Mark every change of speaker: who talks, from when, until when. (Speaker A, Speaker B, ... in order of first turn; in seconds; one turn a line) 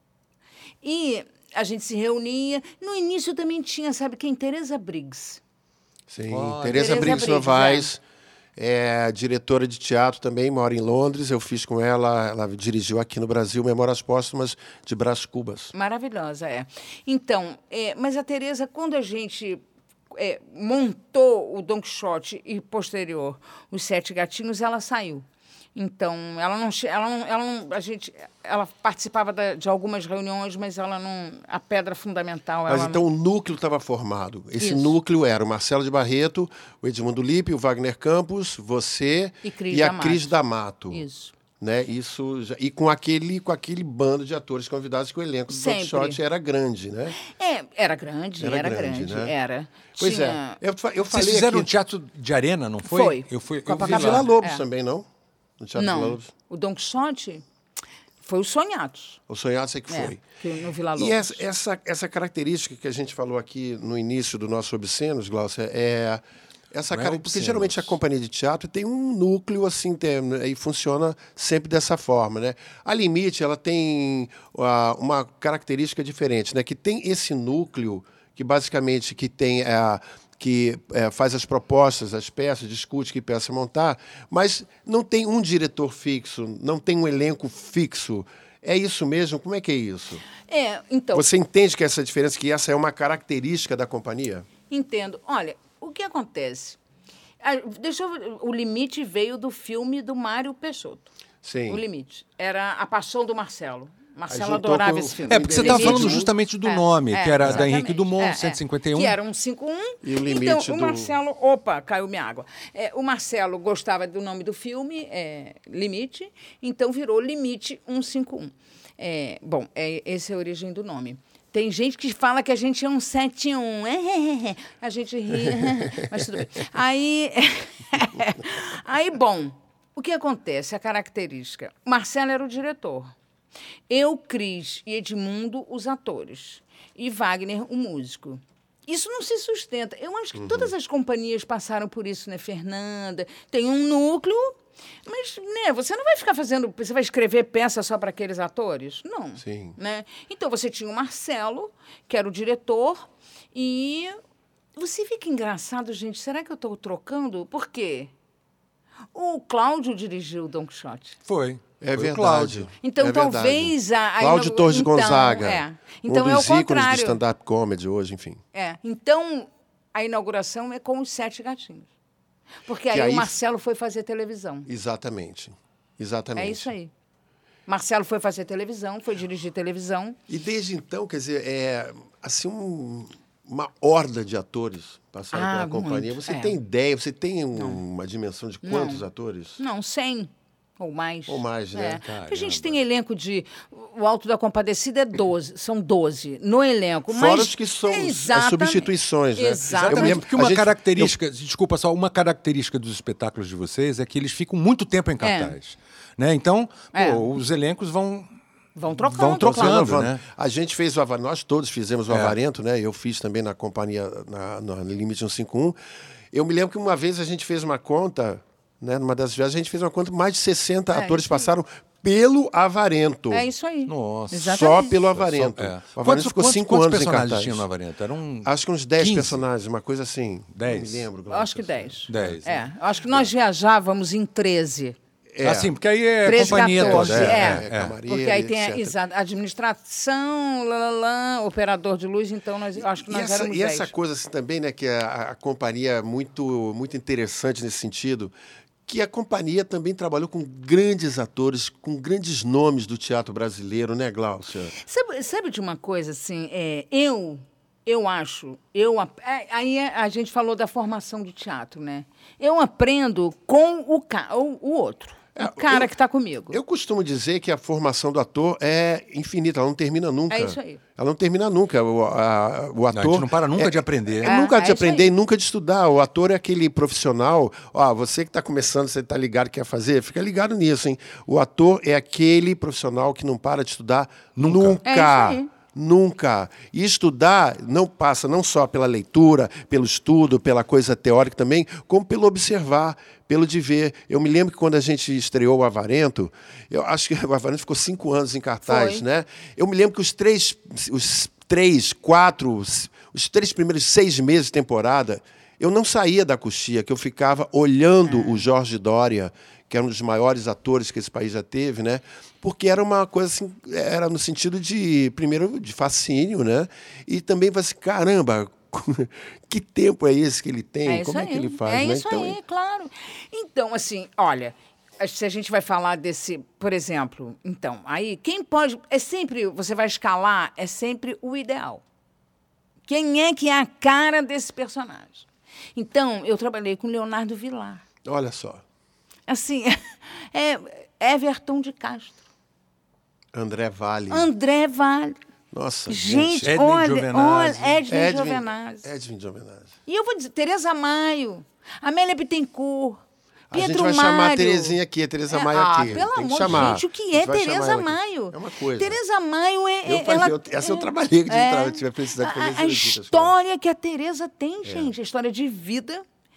Speaker A: 0.8-5.4
Speaker B: 6.1-8.0
Speaker C: 6.3-7.3
Speaker A: 6.7-7.9
Speaker B: 8.6-15.7
Speaker A: 15.7-33.0
Speaker B: 32.7-41.0
Speaker A: 34.6-35.0
Speaker A: 39.4-40.3
Speaker A: 40.9-41.3
Speaker B: 41.6-47.2
Speaker A: 45.5-46.2
Speaker A: 47.2-50.6
Speaker B: 48.4-49.3
Speaker B: 50.0-51.7
Speaker C: 51.1-54.3
Speaker A: 52.8-54.6
Speaker B: 53.8-55.1
Speaker B: 55.6-56.3
Speaker A: 55.8-57.4
Speaker A: 58.2-59.2
Speaker B: 59.3-60.2
Speaker A: 59.9-61.4
Speaker B: 61.0-90.2
Speaker C: 66.9-67.9
Speaker A: 90.4-91.3
Speaker B: 91.1-94.5
Speaker A: 94.7-96.8
Speaker A: 97.4-101.1
Speaker B: 101.4-101.8
Speaker A: 101.7-133.1
Speaker B: 104.3-106.3
Speaker C: 105.3-109.2
Speaker B: 110.0-111.1
Speaker B: 125.6-126.1
Speaker A: 133.9-154.2
Speaker B: 140.3-140.7
Speaker B: 149.4-149.8
Speaker A: 154.8-158.1
Speaker A: 159.1-161.2
Speaker C: 161.2-162.7
Speaker B: 161.8-168.4
Speaker A: 162.8-167.2
Speaker A: 168.5-171.9
Speaker A: 172.7-174.7
Speaker B: 172.9-173.3
Speaker B: 174.7-176.7
Speaker A: 176.3-176.9
Speaker A: 177.7-180.2
Speaker B: 180.3-189.6
Speaker A: 185.3-186.6
Speaker A: 188.6-189.0
Speaker A: 189.6-200.2
Speaker B: 191.3-192.0
Speaker C: 192.0-192.8
Speaker B: 197.1-201.2
Speaker C: 199.7-208.3
Speaker A: 205.2-205.6
Speaker A: 206.9-207.2
Speaker A: 208.8-210.0
Speaker C: 209.0-210.2
Speaker B: 209.4-215.8
Speaker C: 212.1-212.3
Speaker B: 216.3-223.5
Speaker A: 220.9-221.5
Speaker A: 223.3-225.0
Speaker C: 223.9-229.4
Speaker B: 224.4-227.7
Speaker B: 228.4-232.6
Speaker C: 230.5-231.1
Speaker A: 231.3-234.9
Speaker C: 232.1-232.6
Speaker B: 235.3-235.7
Speaker C: 235.4-238.0
Speaker A: 236.2-243.9
Speaker B: 236.3-238.9
Speaker B: 242.8-248.3
Speaker B: 248.8-254.7
Speaker A: 254.8-266.6
Speaker B: 265.3-265.9
Speaker B: 266.5-322.4
Speaker A: 270.3-270.8
Speaker C: 272.9-274.3
Speaker A: 274.2-275.1
Speaker C: 284.4-284.8
Speaker A: 284.9-285.5
Speaker A: 298.7-299.0
Speaker A: 308.1-308.4
Speaker A: 320.9-331.8
Speaker A: 332.9-337.8
Speaker B: 338.0-338.6
Speaker A: 339.3-342.2
Speaker B: 343.3-344.3
Speaker A: 344.1-345.2
Speaker B: 345.5-346.6
Speaker A: 345.9-348.9
Speaker C: 346.4-347.8
Speaker B: 347.9-349.7
Speaker A: 349.9-354.8
Speaker B: 353.5-359.0
Speaker A: 355.3-366.0
Speaker B: 359.9-363.3
Speaker B: 364.6-364.9